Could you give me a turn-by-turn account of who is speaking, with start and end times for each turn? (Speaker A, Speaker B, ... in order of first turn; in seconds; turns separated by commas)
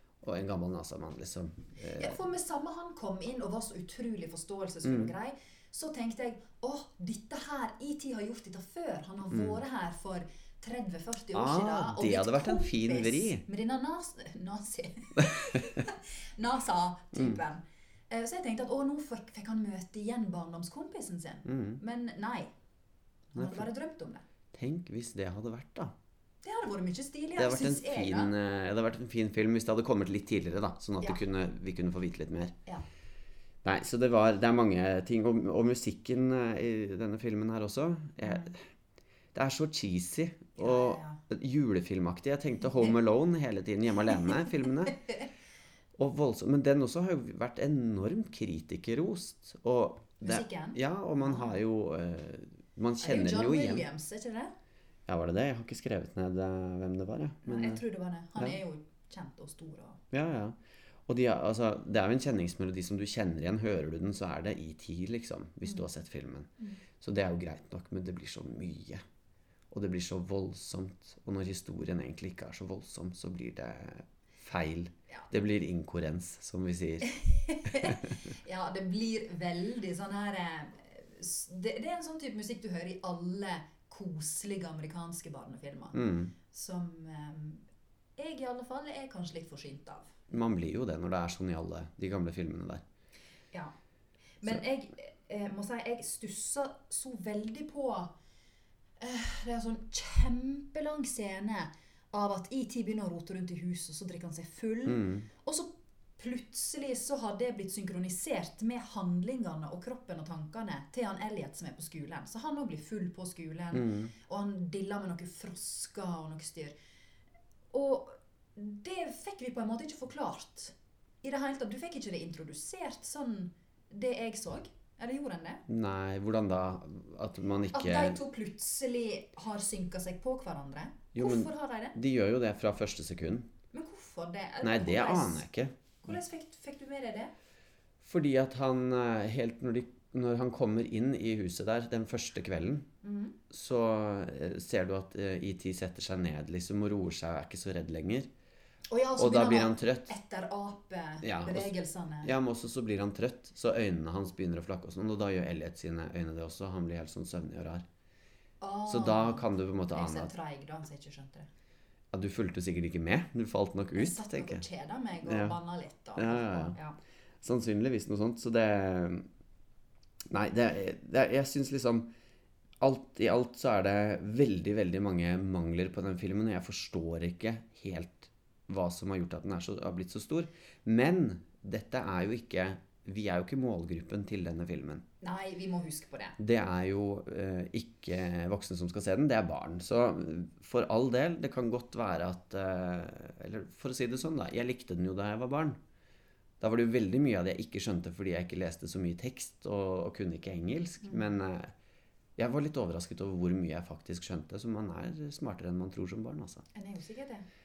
Speaker A: 0.2-2.2, Speaker B: 2.0-22.5, Speaker A: 4.8-5.1, Speaker A: 9.3-9.6, Speaker A: 11.3-13.4, Speaker A: 15.2-15.6, Speaker A: 17.1-17.4, Speaker A: 21.4-21.8, Speaker B: 23.3-24.2, Speaker A: 23.3-23.7, Speaker A: 24.5-25.9, Speaker B: 26.4-28.3, Speaker A: 27.4-32.5, Speaker A: 33.6-38.6, Speaker A: 39.3-45.0, Speaker B: 40.6-41.2, Speaker B: 44.9-45.3, Speaker A: 46.0-53.9, Speaker B: 50.2-51.5, Speaker B: 53.0-54.5, Speaker A: 55.1-57.8, Speaker B: 57.5-60.0, Speaker A: 60.1-69.0, Speaker A: 69.7-77.1, Speaker B: 77.0-87.7, Speaker A: 77.7-78.1, Speaker A: 85.9-86.3, Speaker B: 88.2-90.2, Speaker A: 90.3-92.8, Speaker B: 94.4-98.1, Speaker B: 99.0-116.7, Speaker A: 104.8-105.3, Speaker A: 113.7-114.1, Speaker B: 117.7-125.6, Speaker A: 125.7-128.2, Speaker B: 127.7-131.9, Speaker A: 131.1-133.5, Speaker B: 133.7-135.4, Speaker A: 134.6-135.8, Speaker B: 136.0-137.3, Speaker A: 138.0-142.9, Speaker B: 143.0-143.4, Speaker A: 143.5-148.3, Speaker B: 148.9-152.3, Speaker A: 149.2-150.1, Speaker A: 151.2-151.7, Speaker A: 152.2-157.8, Speaker B: 158.6-161.5, Speaker A: 158.8-160.3, Speaker A: 162.1-164.7, Speaker B: 163.9-166.9, Speaker A: 165.2-165.6, Speaker A: 166.2-166.8, Speaker A: 167.4-169.3, Speaker A: 170.2-172.1, Speaker A: 172.8-185.0, Speaker B: 185.2-186.4, Speaker A: 186.4-195.8, Speaker A: 196.6-201.7, Speaker B: 201.0-201.3, Speaker A: 202.4-206.6, Speaker B: 206.7-207.4